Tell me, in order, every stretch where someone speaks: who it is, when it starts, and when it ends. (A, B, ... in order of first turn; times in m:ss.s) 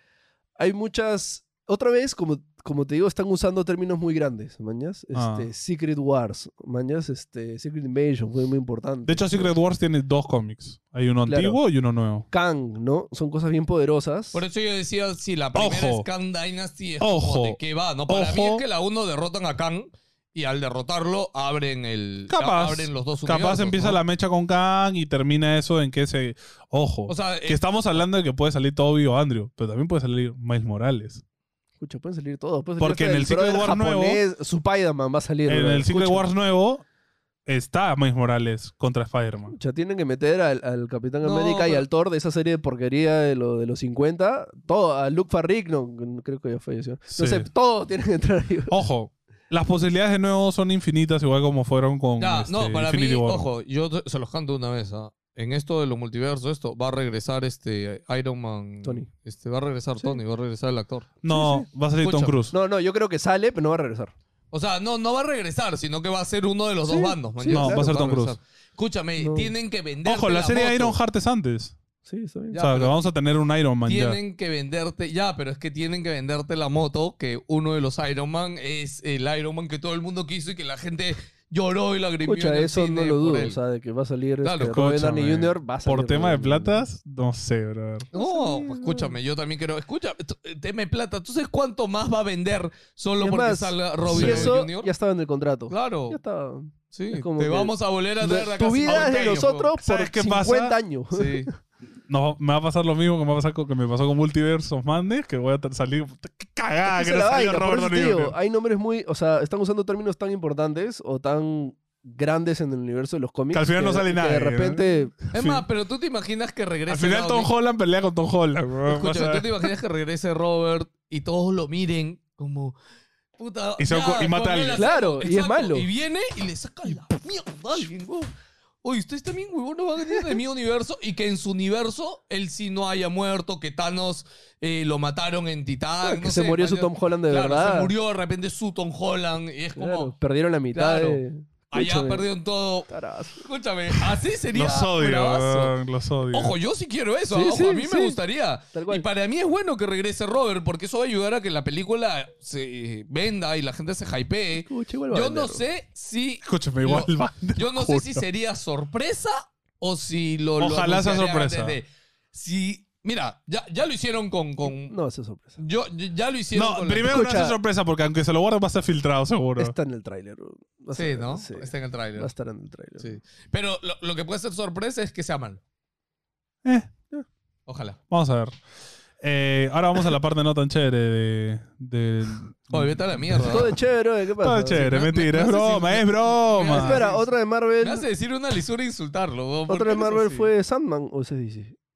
0:00.6-0:09.5 A
0:05.1-0:05.5 B
0:09.1-0:12.3 B
0:11.3-0:11.6 A
0:12.3-0:14.4 A
0:14.3-0:24.0 C
0:15.6-0:16.1 B
0:17.0-0:18.6 B
0:22.3-0:31.2 B
0:27.1-0:27.6 C
0:31.8-0:36.3 A
0:32.8-0:34.2 B
0:35.5-0:36.8 B
0:37.5-0:39.6 B
0:39.5-0:48.8 A
0:41.2-0:41.8 C
0:47.1-0:47.5 B
0:48.7-0:53.5 B
0:52.2-1:01.1 C
1:01.2-1:02.5 B
1:01.3-1:01.7 A
1:02.0-1:02.4 C
1:02.5-1:04.1 A
1:04.5-1:11.0 C
1:06.9-1:08.1 A
1:07.5-1:08.4 B
1:09.2-1:09.5 A
1:10.0-1:11.8 B
1:12.0-1:12.6 A
1:12.5-1:13.0 C
1:12.6-1:14.2 B
1:13.8-1:23.6 C
1:22.3-1:26.9 A
1:24.4-1:24.8 C
1:24.6-1:28.1 B
1:28.1-1:29.2 A
1:28.1-1:34.9 C
1:33.2-1:41.5 A
1:34.1-1:34.5 B
1:35.7-1:36.2 C
1:36.9-1:39.7 C
1:39.8-1:40.8 B
1:41.1-1:41.5 C
1:42.1-1:48.4 B
1:46.9-1:55.2 A
1:53.5-1:55.6 B
1:55.3-1:57.5 C
1:56.9-1:59.7 B
1:58.9-2:02.8 C
2:03.4-2:08.3 C
2:03.8-2:04.8 B
2:04.8-2:05.9 A
2:08.8-2:20.1 C
2:16.0-2:17.9 A
2:19.8-2:22.3 A
2:20.7-2:21.2 C
2:21.7-2:25.8 C
2:22.9-2:24.1 A
2:24.5-2:26.6 B
2:26.3-2:45.0 C
2:27.3-2:28.2 A
2:28.7-2:29.1 A
2:34.6-2:35.6 A
2:36.4-2:38.2 B
2:40.6-2:41.8 B
2:44.6-2:45.6 A
2:45.6-2:47.2 C
2:46.6-2:49.8 B
2:47.0-2:47.6 A
2:49.6-2:53.1 A
2:50.9-2:52.3 C
2:53.0-2:55.6 C
2:56.6-2:56.9 B
2:57.7-2:58.0 C
2:58.1-2:58.6 B
2:59.2-3:03.8 B
3:02.7-3:03.7 C
3:03.4-3:04.9 A
3:04.4-3:07.0 B
3:04.7-3:07.3 C
3:06.6-3:08.1 A
3:07.8-3:10.5 C
3:09.7-3:11.8 A